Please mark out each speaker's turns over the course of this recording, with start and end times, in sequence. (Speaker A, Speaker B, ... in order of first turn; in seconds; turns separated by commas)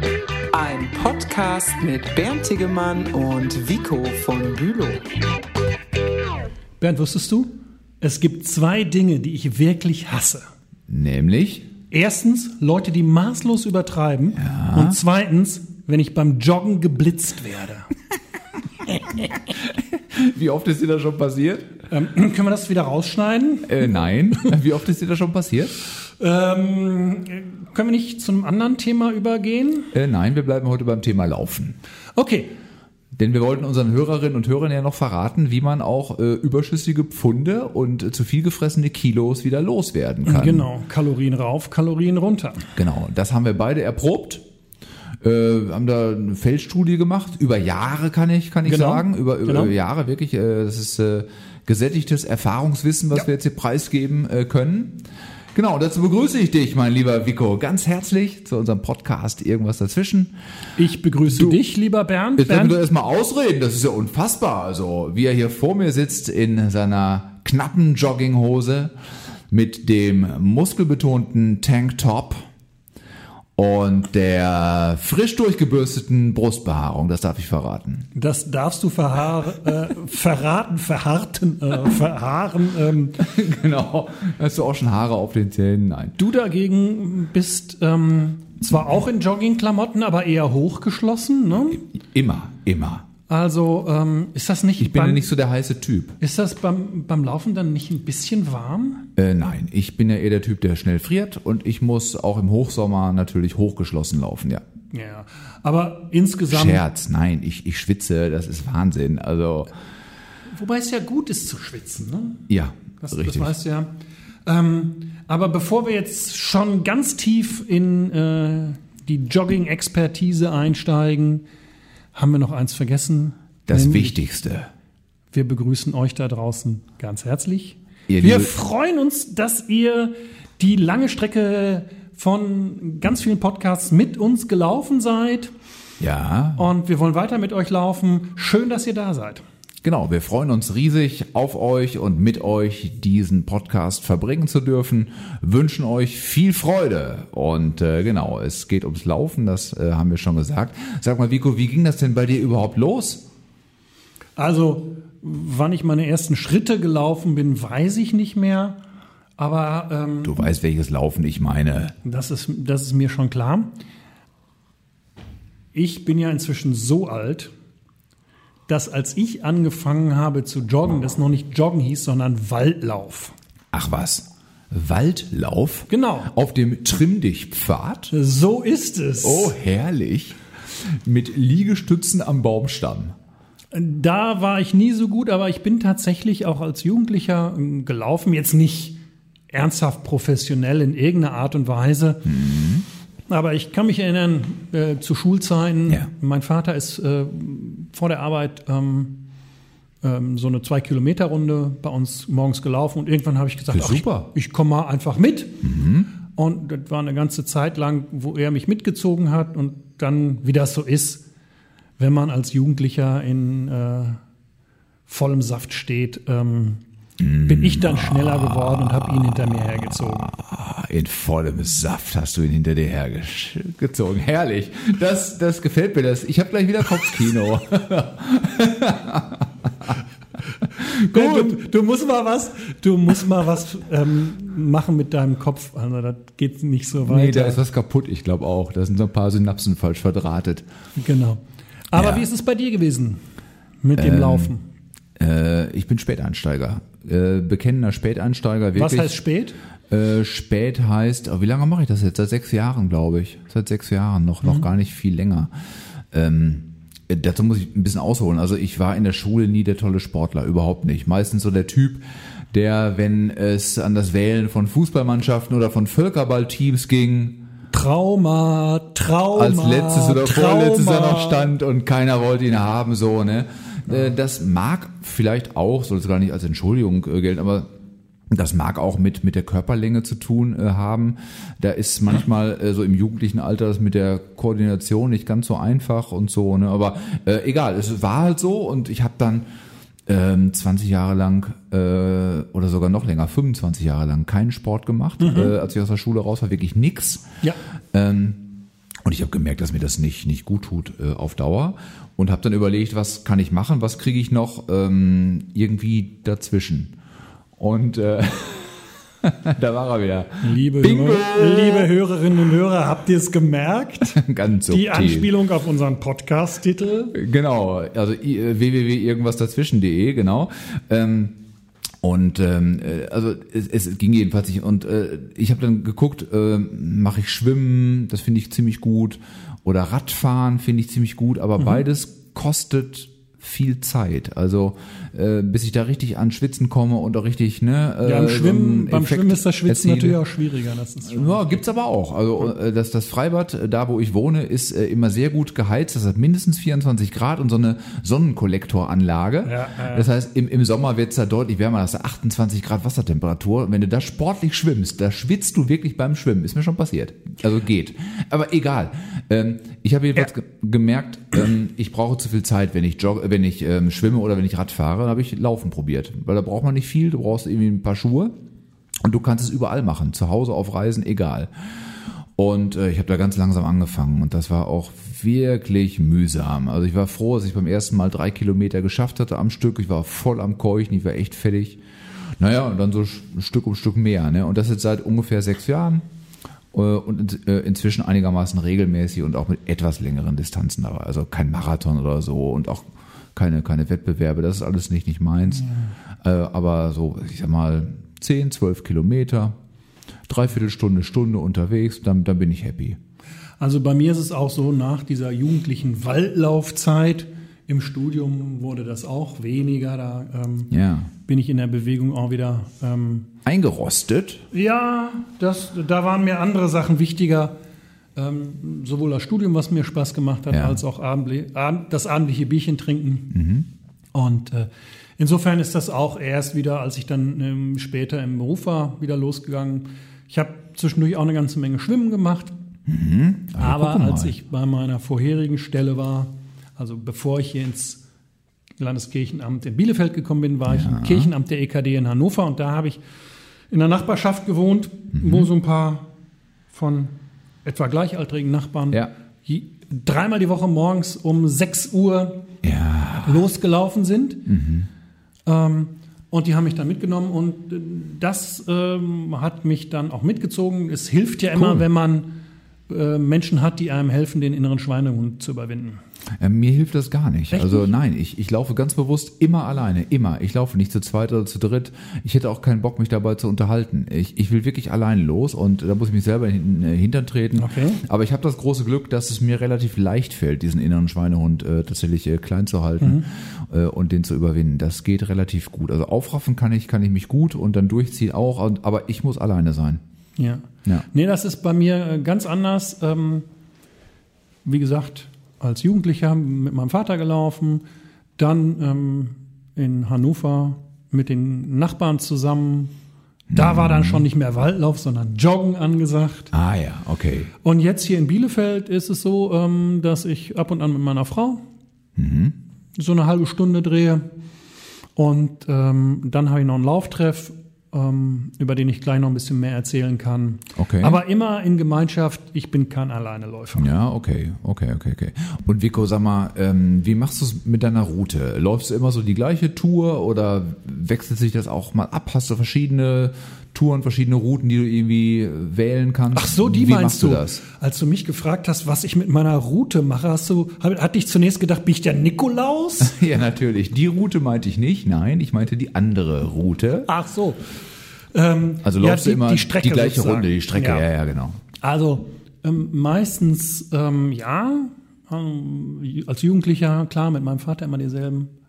Speaker A: 0.5-5.0, Speaker B: 6.8-10.4, Speaker C: 10.9-11.7, Speaker B: 11.9-17.9, Speaker C: 14.4-15.0, Speaker C: 19.1-21.7, Speaker B: 21.9-23.9, Speaker C: 23.6-25.8, Speaker B: 26.2-29.9, Speaker C: 29.9-31.8, Speaker B: 32.1-32.5, Speaker C: 33.1-40.6, Speaker B: 40.3-42.7, Speaker C: 42.8-44.4, Speaker C: 45.2-55.0, Speaker B: 48.6-49.7, Speaker C: 55.5-60.3, Speaker B: 60.8-62.8, Speaker C: 61.3-61.6, Speaker C: 62.4-68.9, Speaker C: 69.5-72.4, Speaker C: 73.5-78.1, Speaker B: 78.1-83.2, Speaker C: 83.2-86.2, Speaker B: 86.2-91.8, Speaker C: 91.7-93.0, Speaker B: 93.3-95.3, Speaker C: 94.8-96.2, Speaker B: 96.2-99.1, Speaker C: 99.2-104.6, Speaker B: 104.9-106.8, Speaker C: 106.5-109.7, Speaker B: 110.5-112.4, Speaker C: 112.5-113.5, Speaker B: 113.0-113.9, Speaker B: 114.5-121.4, Speaker B: 122.1-124.2, Speaker C: 123.7-124.7, Speaker B: 125.3-135.5, Speaker C: 128.1-128.5, Speaker C: 136.0-136.7, Speaker B: 136.6-139.4, Speaker C: 139.8-153.2, Speaker B: 154.4-158.8, Speaker B: 159.4-160.4, Speaker C: 160.2-161.9, Speaker B: 162.0-163.7, Speaker B: 165.7-167.5, Speaker B: 168.7-173.3, Speaker C: 173.7-178.1, Speaker B: 175.9-176.3, Speaker B: 178.1-179.6, Speaker C: 179.2-183.1, Speaker B: 183.7-189.0, Speaker B: 189.5-192.3, Speaker C: 192.2-192.8, Speaker B: 193.3-199.2, Speaker B: 200.0-205.7, Speaker C: 203.7-204.3, Speaker C: 205.6-206.1, Speaker B: 206.3-211.2, Speaker B: 212.0-214.2, Speaker B: 215.1-216.8, Speaker C: 217.2-230.0, Speaker B: 217.4-220.3, Speaker C: 230.8-231.6, Speaker B: 230.9-237.6, Speaker C: 237.0-240.6, Speaker B: 241.0-243.2, Speaker C: 241.9-242.2, Speaker B: 243.8-244.6, Speaker C: 243.9-244.5, Speaker C: 245.2-249.2, Speaker B: 248.7-249.5, Speaker C: 249.9-255.5, Speaker C: 256.1-267.4, Speaker B: 267.7-271.5, Speaker C: 269.3-277.7, Speaker C: 278.3-289.4, Speaker C: 290.1-297.3, Speaker B: 295.2-295.5, Speaker C: 297.9-298.5, Speaker C: 299.0-306.9, Speaker C: 307.6-311.9, Speaker B: 310.4-317.2, Speaker C: 314.1-315.3, Speaker C: 317.1-321.4, Speaker C: 322.0-340.2, Speaker B: 338.0-341.6, Speaker C: 341.0-368.3, Speaker B: 349.4-350.1, Speaker C: 369.0-371.5, Speaker C: 372.4-381.8, Speaker C: 382.4-386.0, Speaker C: 386.7-399.6, Speaker C: 400.3-403.0, Speaker B: 403.6-410.7, Speaker C: 410.7-411.1, Speaker B: 411.2-413.3, Speaker C: 413.4-414.4, Speaker B: 414.5-417.5, Speaker B: 418.1-423.3, Speaker C: 420.5-420.8, Speaker C: 423.3-423.7, Speaker B: 424.1-432.5, Speaker C: 432.9-434.3, Speaker B: 433.6-438.0, Speaker B: 438.8-443.0, Speaker C: 440.7-441.3, Speaker B: 443.7-446.1, Speaker C: 445.1-445.5, Speaker B: 446.7-447.1, Speaker B: 447.6-452.4, Speaker C: 452.6-453.4, Speaker B: 453.2-454.5, Speaker C: 454.5-454.9, Speaker B: 455.4-462.3, Speaker C: 461.6-461.8, Speaker B: 462.9-466.0, Speaker C: 466.4-490.0, Speaker B: 467.5-467.9, Speaker B: 477.6-478.0, Speaker B: 483.0-483.2, Speaker B: 490.4-493.4, Speaker B: 494.6-497.8, Speaker B: 498.4-502.9, Speaker C: 503.5-504.2, Speaker B: 503.5-506.5, Speaker C: 506.5-507.5, Speaker B: 507.6-511.6, Speaker C: 512.1-512.5, Speaker B: 513.0-514.2, Speaker B: 515.1-523.9, Speaker C: 520.7-521.2, Speaker C: 523.8-537.6, Speaker B: 536.3-543.1, Speaker C: 543.0-547.1, Speaker B: 547.1-547.6, Speaker B: 548.3-551.1, Speaker C: 548.8-551.6, Speaker B: 551.8-558.5